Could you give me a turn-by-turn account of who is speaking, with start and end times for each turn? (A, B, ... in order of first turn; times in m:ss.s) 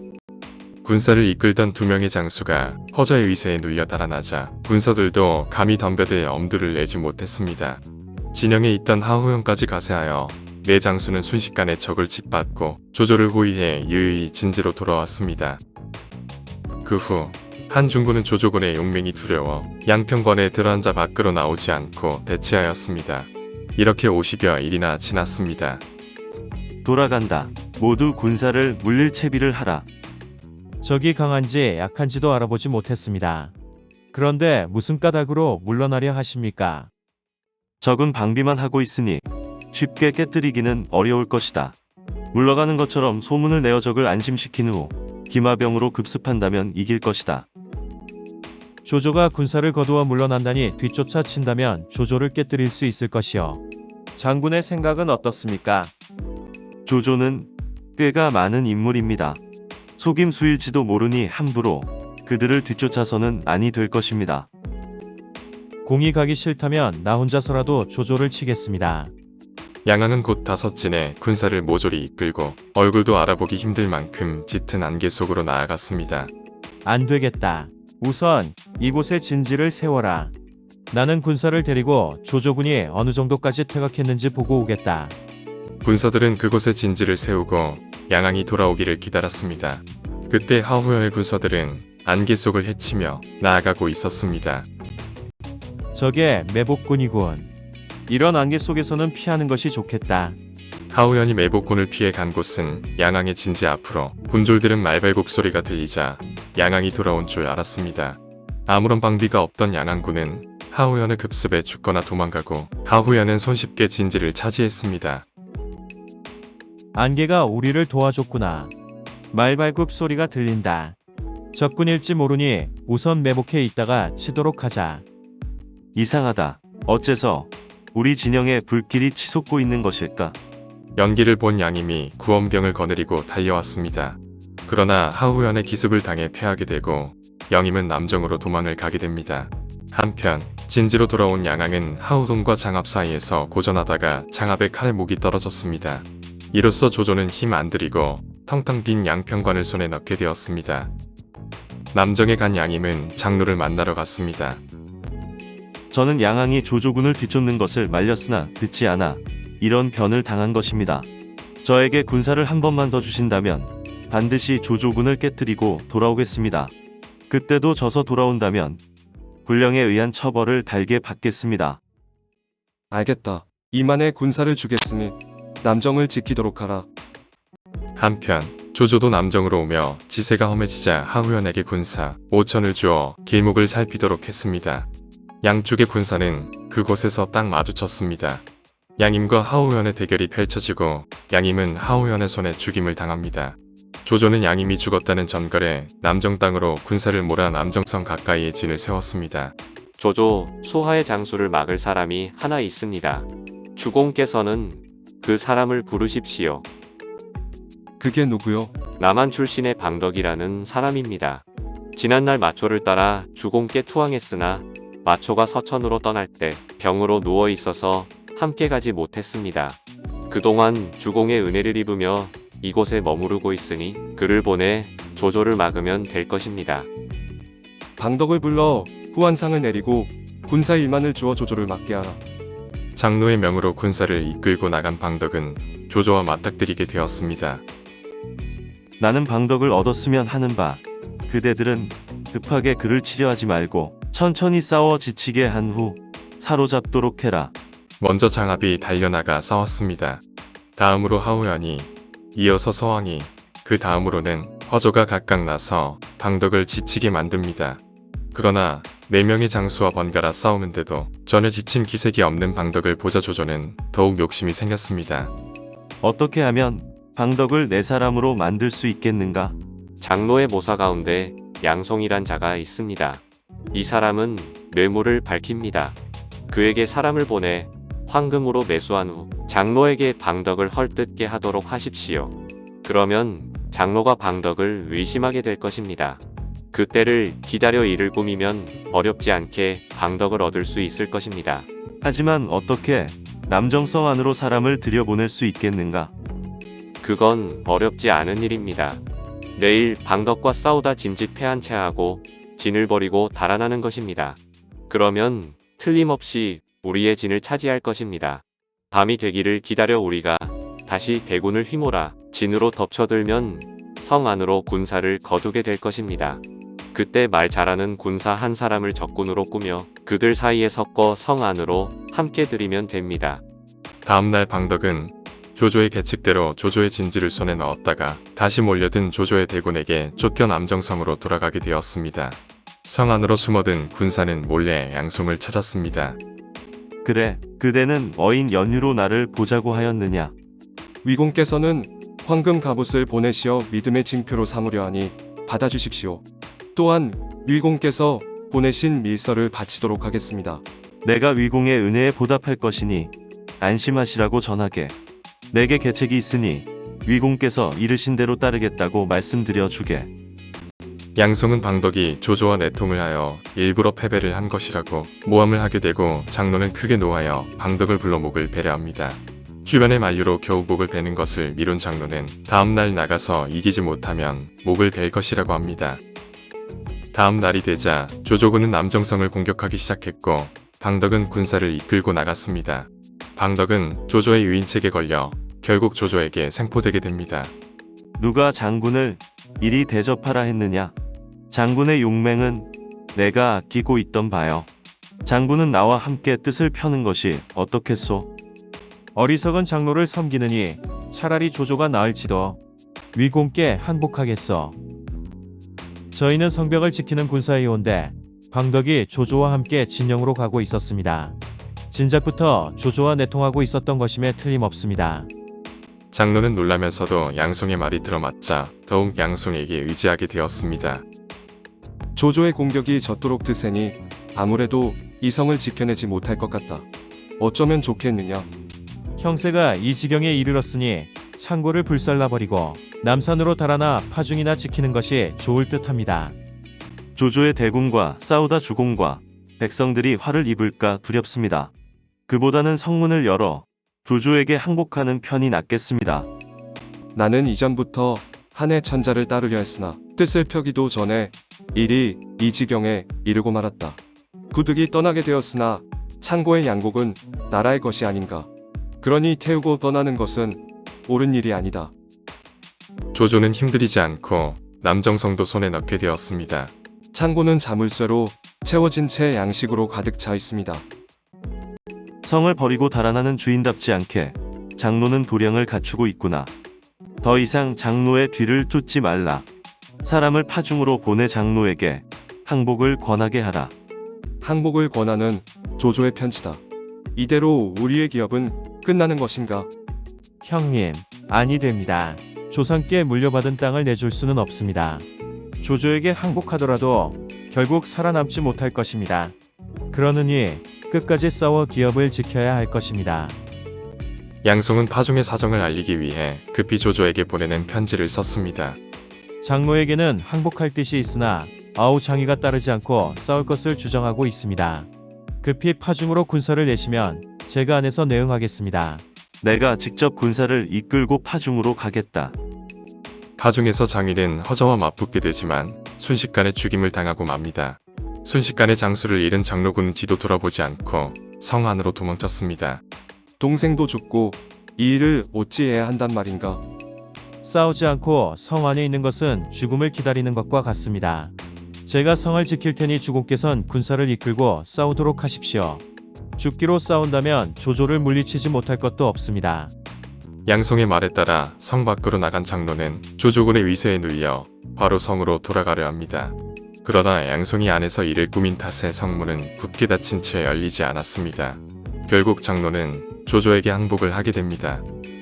0:00.8-0:15.6 A
0:16.8-0:25.8 A
0:26.8-0:29.9 B
0:30.8-0:33.5 C
0:34.1-0:36.9 C
0:37.8-0:41.8 B
0:42.3-0:47.5 B
0:48.8-0:53.6 C
0:54.2-0:55.9 C
0:56.9-0:59.4 B
1:00.0-1:04.5 B
1:05.8-1:09.1 C
1:09.8-1:16.3 A
1:16.8-1:20.3 C
1:20.9-1:25.1 C
1:25.8-1:34.7 A
1:35.9-1:37.5 C
1:38.1-1:40.4 C
1:40.9-1:55.2 A
1:56.9-1:58.7 C
1:59.3-2:01.0 C
2:01.5-2:05.0 C
2:06.0-2:10.4 B
2:11.0-2:30.9 A
2:31.9-2:34.6 A
2:35.9-2:41.1 B
2:41.6-2:46.7 B
2:47.3-2:48.8 B
2:49.5-2:51.8 B
2:52.9-2:56.9 D
2:58.0-3:04.9 A
3:05.4-3:08.4 A
3:09.0-3:19.6 A
3:20.0-3:26.6 E
3:28.0-3:28.7 D
3:29.0-3:31.4 E
3:32.0-3:46.9 E
3:48.0-3:52.2 D
3:53.0-3:57.6 A
3:59.0-4:07.5 B
4:08.0-4:10.2 A
4:10.8-4:17.8 A
4:18.3-4:25.3 A
4:26.0-4:29.6 B
4:30.0-4:36.0 E
4:36.5-4:46.2 E
4:46.7-4:51.6 E
4:52.0-4:56.1 B
4:57.0-4:59.0 E
4:59.5-5:16.4 E
5:16.9-5:23.4 E
5:24.0-5:36.2 A
5:37.0-5:40.3 B
5:41.0-5:46.2 D
5:46.8-5:50.6 D
5:51.0-5:55.0 B
5:55.5-6:00.1 B
6:01.2-6:16.0 A
6:17.1-6:27.5 A
6:28.2-6:31.0 B
6:31.5-6:34.7 B
6:35.2-6:38.3 B
6:39.1-6:42.6 C
6:43.1-6:44.8 C
6:46.1-6:51.4 C
6:51.9-6:55.3 C
6:56.1-7:01.0 A
7:02.1-7:06.9 D
7:07.4-7:08.5 D
7:09.2-7:16.4 C
7:17.2-7:21.7 B
7:22.3-7:26.3 B
7:27.1-7:34.0 D
7:34.5-7:38.5 D
7:39.0-7:41.9 D
7:43.1-7:46.7 A
7:47.1-7:50.8 D
7:52.2-7:56.5 B
7:57.2-7:59.5 B
8:00.0-8:03.7 B
8:04.4-8:06.6 D
8:07.1-8:09.7 D
8:10.4-8:15.0 C
8:15.6-8:19.4 C
8:19.9-8:23.4 C
8:24.4-8:28.8 A
8:29.4-8:34.9 C
8:35.4-8:39.0 C
8:39.4-8:42.4 B
8:43.4-8:52.8 A
8:53.4-8:56.6 D
8:57.4-9:01.3 C
9:01.9-9:05.8 C
9:06.4-9:09.7 C
9:10.4-9:24.8 A